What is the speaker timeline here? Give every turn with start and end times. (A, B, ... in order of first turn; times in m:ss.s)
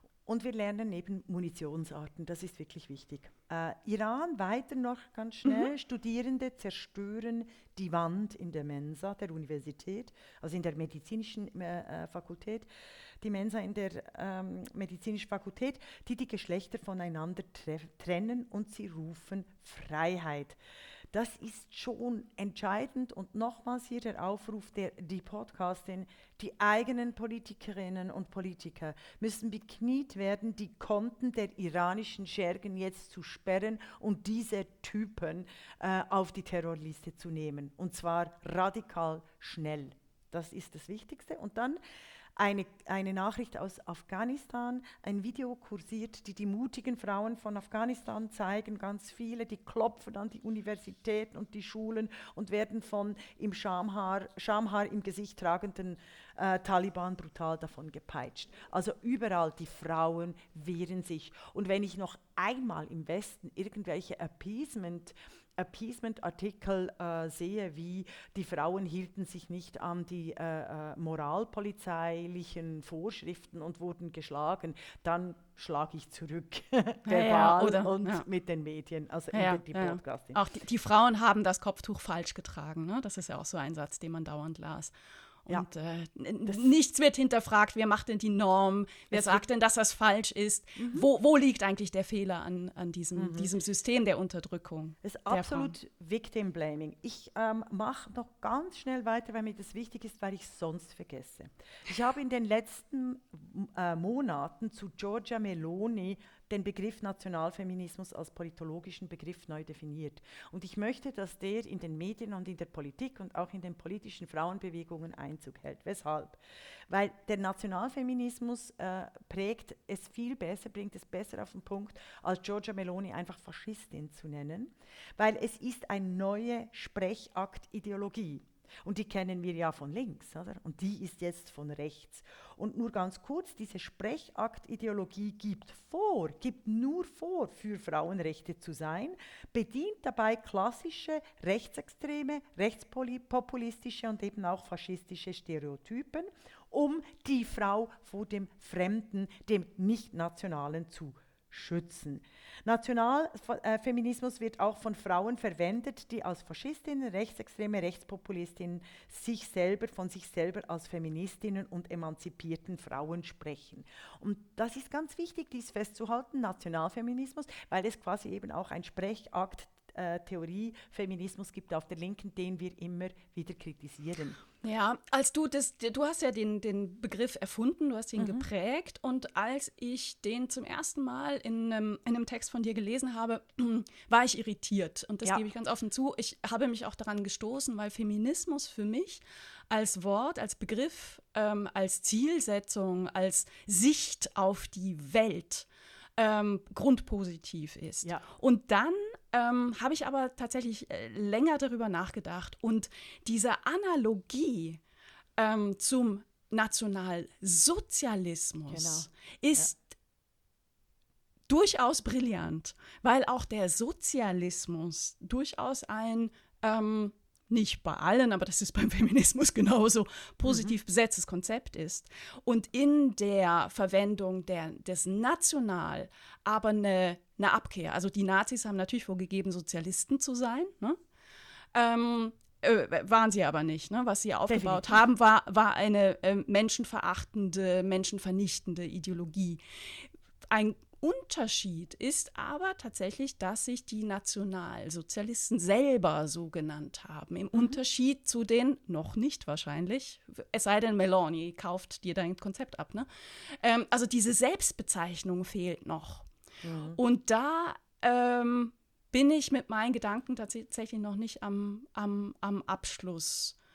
0:00.2-0:12.7 A
0:13.2-0:20.6 A
0:21.1-0:41.8 A
0:42.4-1:20.4 A
1:17.0-1:18.2 B
1:19.3-1:24.9 B
1:25.4-1:35.7 B
1:29.1-1:29.4 A
1:30.8-1:31.1 A
1:33.2-1:33.5 A
1:35.0-2:54.4 A
2:54.6-3:15.7 B
2:58.2-2:58.5 A
3:16.2-3:24.8 B
3:25.4-3:30.0 B
3:28.7-3:29.7 A
3:31.5-3:51.0 B
3:40.4-3:40.7 A
3:51.7-3:59.6 B
3:54.5-3:55.0 A
4:00.5-4:13.1 B
4:13.6-4:16.3 B
4:16.6-4:17.0 A
4:17.0-4:23.6 B